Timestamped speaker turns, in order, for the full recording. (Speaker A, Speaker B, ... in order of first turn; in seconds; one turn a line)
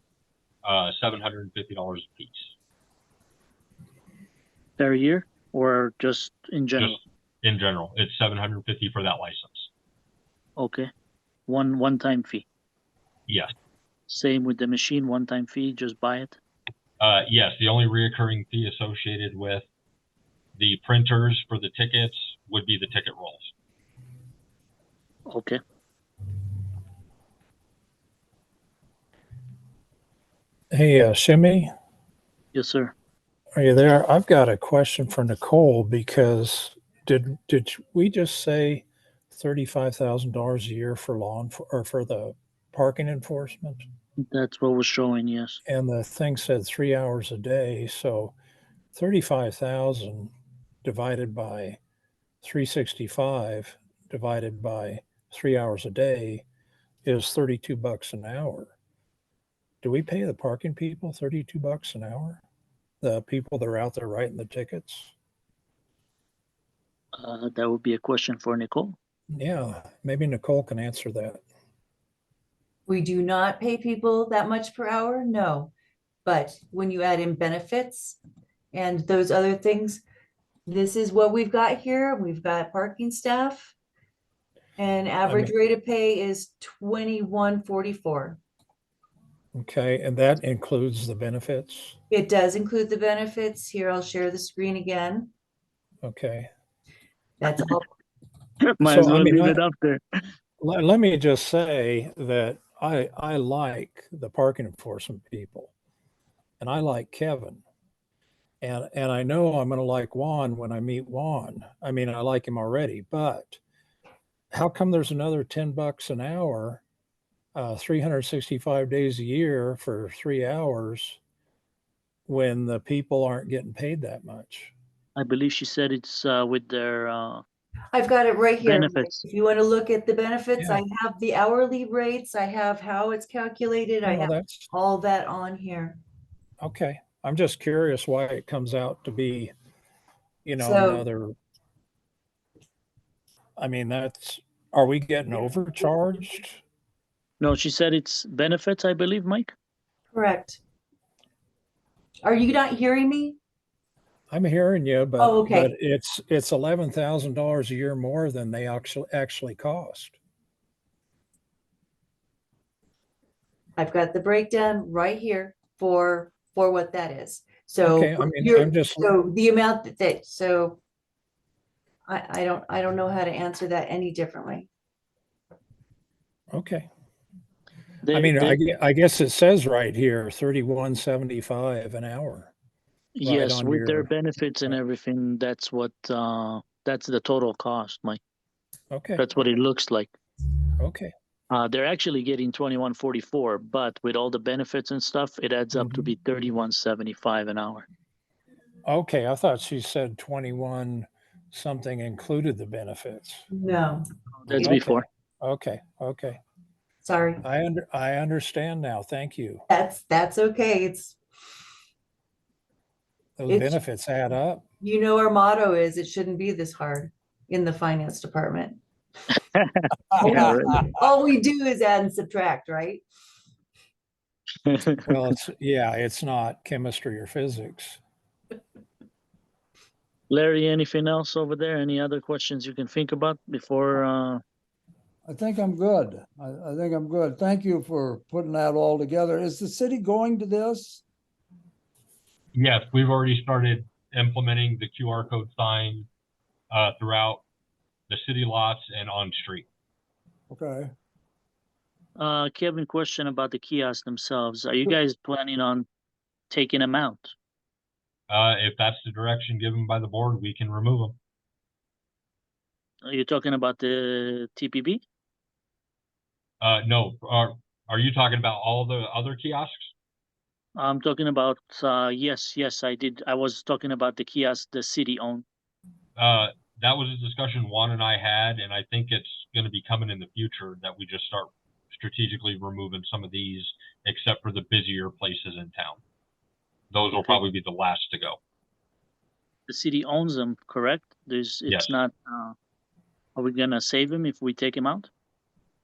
Speaker A: 0.6-2.6
Speaker B: 4.8-7.0
Speaker A: 6.8-9.7
Speaker B: 10.6-10.9
Speaker B: 11.5-12.5
Speaker A: 13.3-13.5
Speaker B: 14.1-16.4
Speaker A: 17.0-19.7
Speaker A: 20.6-23.5
Speaker B: 25.3-25.6
Speaker C: 30.7-31.7
Speaker B: 32.5-32.9
Speaker C: 33.5-43.8
Speaker B: 44.2-45.6
Speaker C: 45.6-48.3
Speaker C: 48.9-50.3
Speaker C: 50.8-51.8
Speaker C: 52.4-56.5
Speaker C: 57.0-58.7
Speaker C: 59.8-62.4
Speaker C: 63.0-65.1
Speaker B: 67.2-69.0
Speaker C: 69.3-71.4
Speaker D: 72.9-75.7
Speaker D: 76.2-78.2
Speaker D: 78.7-80.0
Speaker D: 80.7-83.7
Speaker D: 84.8-88.4
Speaker C: 85.2-85.5
Speaker C: 89.5-92.0
Speaker D: 92.1-95.3
Speaker C: 96.0-96.5
Speaker D: 97.4-97.9
Speaker B: 98.7-100.0
Speaker C: 98.8-99.6
Speaker C: 100.6-105.7
Speaker C: 106.6-107.6
Speaker C: 108.6-113.6
Speaker C: 114.5-116.8
Speaker C: 117.5-121.2
Speaker C: 122.3-124.7
Speaker B: 125.2-127.4
Speaker D: 127.9-136.0
Speaker B: 128.6-129.2
Speaker C: 134.0-134.7
Speaker C: 136.6-139.5
Speaker C: 140.4-141.3
Speaker D: 140.6-141.0
Speaker C: 143.6-146.6
Speaker B: 147.4-149.5
Speaker D: 150.1-150.6
Speaker D: 152.2-153.4
Speaker C: 154.3-160.2
Speaker D: 155.2-155.7
Speaker D: 163.8-170.8
Speaker C: 167.8-169.1
Speaker D: 172.1-174.7
Speaker C: 176.5-176.9
Speaker B: 178.0-178.6
Speaker C: 178.1-182.5
Speaker B: 183.2-188.2
Speaker C: 183.2-184.1
Speaker C: 188.9-189.2
Speaker B: 189.2-190.1
Speaker C: 190.8-191.1
Speaker B: 191.5-197.8
Speaker C: 195.7-196.1
Speaker C: 198.8-203.5
Speaker D: 203.5-204.0
Speaker B: 204.4-205.1
Speaker C: 204.5-206.4
Speaker D: 207.0-207.4
Speaker C: 207.4-209.7
Speaker D: 209.7-211.2
Speaker C: 213.4-214.6
Speaker D: 213.5-213.8
Speaker D: 214.8-218.8
Speaker B: 219.5-220.8
Speaker D: 220.2-223.0
Speaker B: 224.7-225.0
Speaker C: 225.1-228.0
Speaker B: 230.3-234.4
Speaker E: 235.2-241.0
Speaker A: 242.5-246.1
Speaker A: 246.7-247.4
Speaker A: 248.1-249.7
Speaker E: 250.5-250.9
Speaker B: 252.2-255.9
Speaker B: 256.5-257.3
Speaker A: 258.3-261.2
Speaker B: 263.1-265.0
Speaker A: 266.6-269.9
Speaker B: 270.8-275.4
Speaker A: 276.1-286.0
Speaker A: 286.9-288.4
Speaker B: 289.7-292.6
Speaker A: 291.7-291.9
Speaker B: 293.3-295.1